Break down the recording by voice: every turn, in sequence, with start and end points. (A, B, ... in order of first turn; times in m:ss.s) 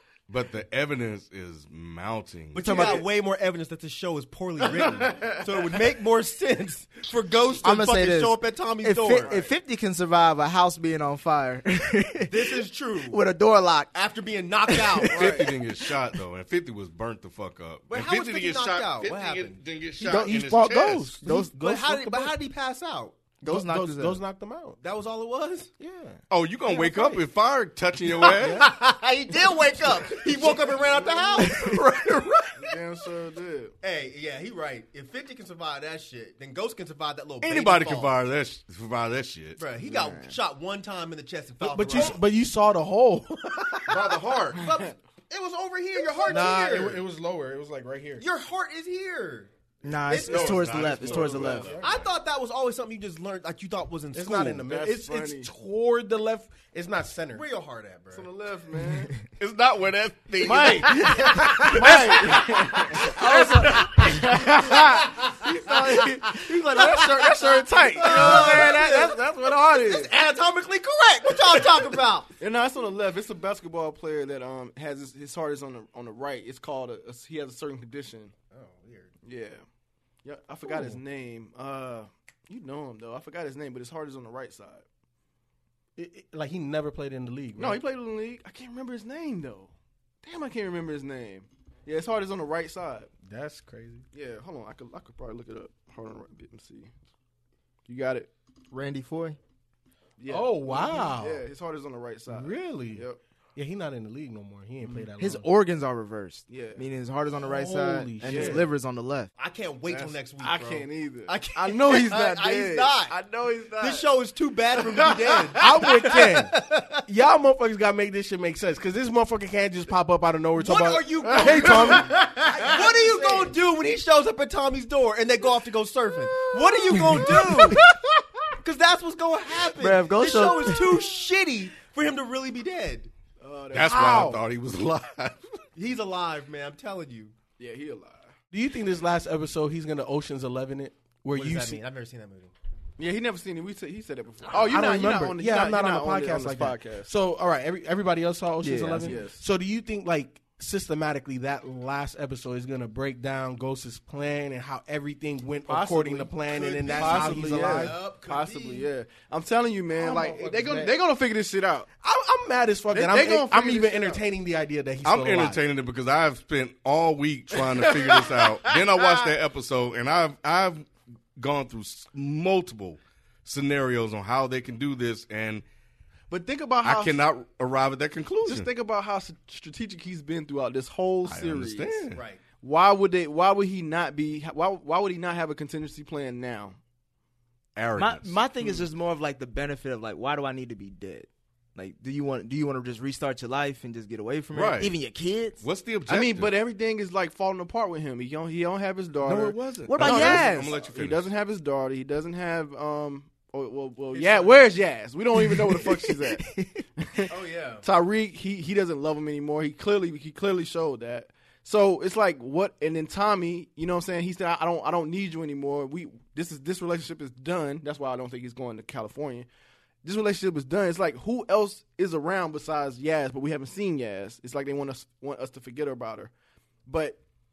0:00.3-0:03.0 A
0:02.5-0:09.4 B
0:02.6-0:03.0 C
0:04.7-0:05.7 D
0:07.6-0:12.6 C
0:09.2-0:09.5 D
0:12.3-0:13.2 B
0:13.1-0:13.9 C
0:13.9-0:15.5 B
0:14.7-0:15.1 C
0:15.2-0:21.2 A
0:15.2-0:15.5 D
0:17.9-0:19.6 B
0:20.0-0:22.4 E
0:20.0-0:21.5 C
0:21.6-0:23.2 B
0:23.4-0:24.2 C
0:23.4-0:24.8 E
0:24.8-0:25.7 B
0:25.8-0:26.2 E
0:26.3-0:28.7 A
0:28.2-0:31.7 B
0:31.0-0:31.4 D
0:31.5-0:32.6 A
0:32.6-0:33.7 D
0:33.8-0:38.2 B
0:37.4-0:39.6 A
0:39.6-0:42.2 B
0:41.6-0:43.9 E
0:43.9-0:44.6 A
0:44.6-0:47.0 B
0:44.6-0:44.9 D
0:46.3-0:48.2 E
0:48.2-0:49.5 B
0:49.8-0:51.7 C
0:50.1-0:50.7 B
0:50.3-0:52.0 A
0:50.7-0:51.7 D
0:51.0-0:52.0 E
0:51.8-0:54.7 B
0:54.1-0:57.4 E
0:54.6-0:55.5 D
0:57.3-0:58.3 B
0:58.1-0:59.1 D
0:59.4-1:01.8 A
1:00.4-1:10.1 D
1:00.4-1:01.9 B
1:01.8-1:02.5 E
1:03.4-1:04.0 E
1:04.8-1:12.3 B
1:12.4-1:18.3 D
1:18.5-1:19.1 B
1:19.2-1:19.6 D
1:20.2-1:24.8 D
1:26.0-1:27.8 E
1:27.6-1:33.1 D
1:33.2-1:34.0 E
1:34.1-1:36.9 D
1:37.9-1:38.3 D
1:38.7-1:39.4 C
1:40.2-1:43.2 D
1:40.3-1:41.4 E
1:42.3-1:45.5 E
1:45.2-1:49.3 C
1:46.5-1:46.8 D
1:47.4-1:48.7 E
1:48.2-1:48.6 D
1:49.4-1:53.2 B
1:49.9-1:54.1 D
1:53.8-1:57.0 B
1:54.7-1:56.2 D
1:55.6-1:56.6 E
1:57.1-2:03.5 E
2:00.6-2:07.8 B
2:01.3-2:02.6 D
2:08.6-2:13.1 B
2:09.8-2:11.0 C
2:13.4-2:14.3 D
2:13.7-2:15.4 A
2:13.9-2:14.4 E
2:15.8-2:17.3 B
2:17.6-2:18.3 D
2:18.5-2:21.8 E
2:21.3-2:22.5 B
2:23.0-2:27.1 D
2:24.5-2:24.9 B
2:24.5-2:38.0 E
2:28.6-2:29.2 C
2:29.0-2:29.4 D
2:35.7-2:36.3 D
2:36.5-2:38.9 B
2:36.9-2:41.9 D
2:39.9-2:40.9 E
2:42.0-2:45.6 E
2:42.9-2:44.2 D
2:45.0-2:55.6 A
2:47.5-2:49.3 D
2:56.3-2:57.2 D
2:56.8-2:58.7 A
2:58.4-3:02.0 D
3:01.2-3:02.2 A
3:02.1-3:02.4 B
3:02.6-3:06.8 D
3:07.8-3:08.4 A
3:08.0-3:15.6 C
3:14.5-3:14.9 A
3:15.6-3:16.5 A
3:16.1-3:39.5 D
3:19.2-3:21.3 A
3:19.9-3:20.6 C
3:20.2-3:20.7 B
3:24.1-3:24.6 B
3:25.7-3:26.8 C
3:27.3-3:27.8 B
3:40.0-3:46.3 D
3:46.9-3:47.2 D